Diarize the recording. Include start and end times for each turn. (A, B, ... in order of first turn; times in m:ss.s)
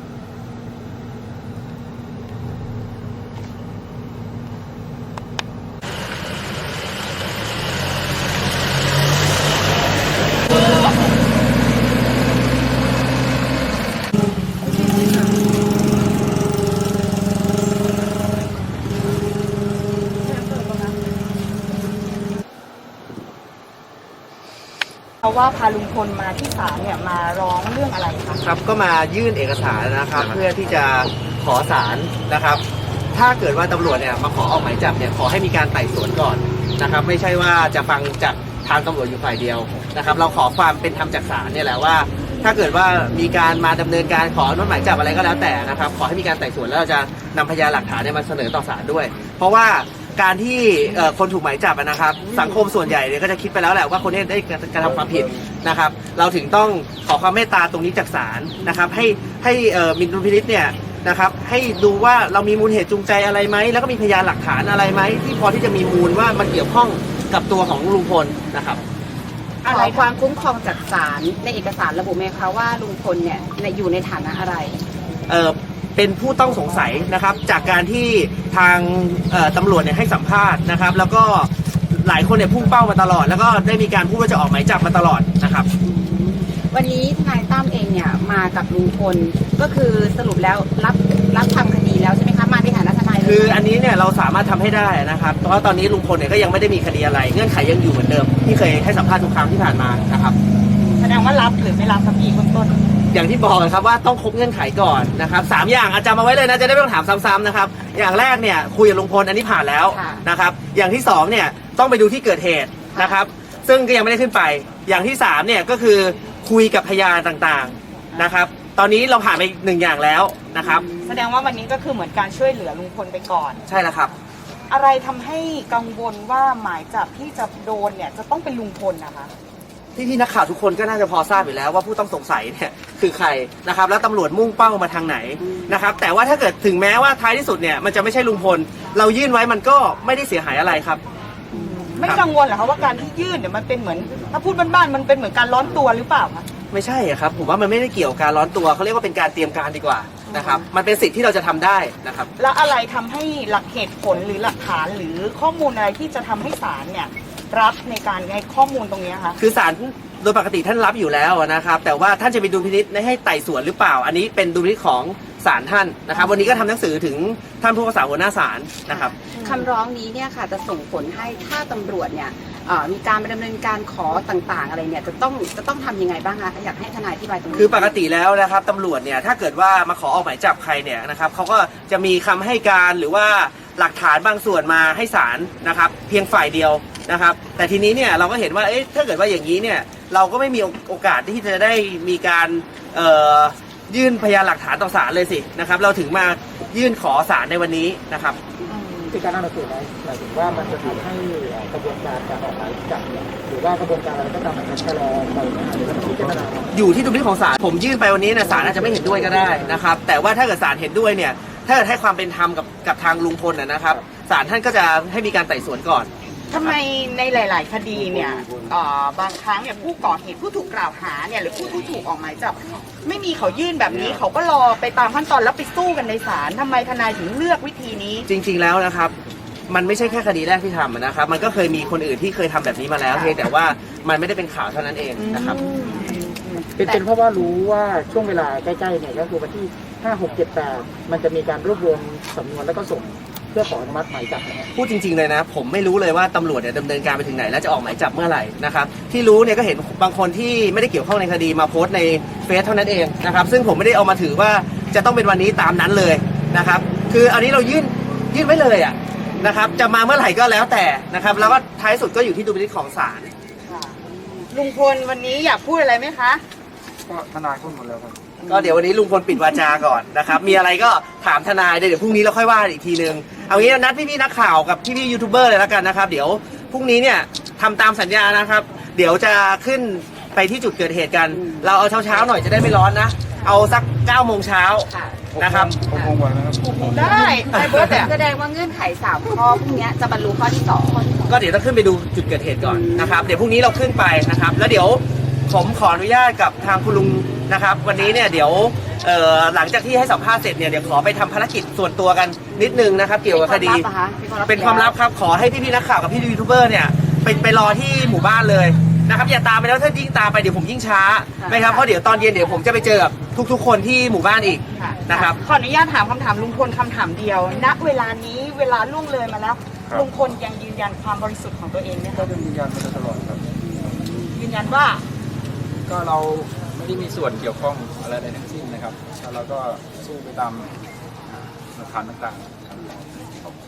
0:25.2-0:28.4 A
0:28.4-0:32.6 B
0:33.1-1:08.8 B
0:58.6-0:59.2 C
1:09.6-1:10.1 A
1:09.6-1:14.8 C
1:15.3-1:25.7 B
1:25.8-1:33.6 C
1:33.2-1:40.4 B
1:40.8-1:41.2 C
1:41.0-1:42.8 A
1:43.1-2:00.9 B
1:49.9-1:50.2 C
1:52.9-1:53.2 C
2:00.6-2:01.2 C
2:01.0-2:03.6 A
2:03.7-2:04.1 B
2:04.7-2:09.3 A
2:09.9-2:21.0 B
2:15.4-2:15.7 C
2:21.5-2:22.0 C
2:21.5-2:26.5 A
2:26.7-2:32.3 B
2:32.4-2:39.4 A
2:39.4-2:49.2 B
2:48.9-2:58.0 C
2:49.3-2:49.6 A
2:57.5-3:18.4 B
3:18.6-3:18.9 C
3:19.1-3:26.8 D
3:26.7-3:36.8 B
3:28.4-3:29.7 D
3:36.5-3:48.2 A
3:48.3-3:49.1 B
3:49.7-3:55.6 B
3:55.2-3:56.4 A
3:55.2-3:56.2 C
3:56.6-4:04.7 D
4:04.8-4:23.3 B
4:23.7-4:24.0 A
4:24.5-4:26.4 A
4:27.1-4:28.2 E
4:28.5-4:28.8 A
4:28.5-4:45.8 B
4:41.3-4:41.7 C
4:44.9-4:45.2 C
4:45.4-4:47.4 E
4:46.6-4:48.1 A
4:47.5-4:47.8 B
4:47.5-4:51.3 C
4:51.3-5:03.8 B
4:52.6-4:53.4 C
5:02.5-5:04.9 C
5:04.5-5:15.4 B
5:11.4-5:11.8 C
5:14.7-5:22.3 A
5:22.1-5:23.4 E
5:23.7-5:24.2 C
5:24.3-5:25.0 A
5:25.9-5:30.7 E
5:31.7-5:33.6 E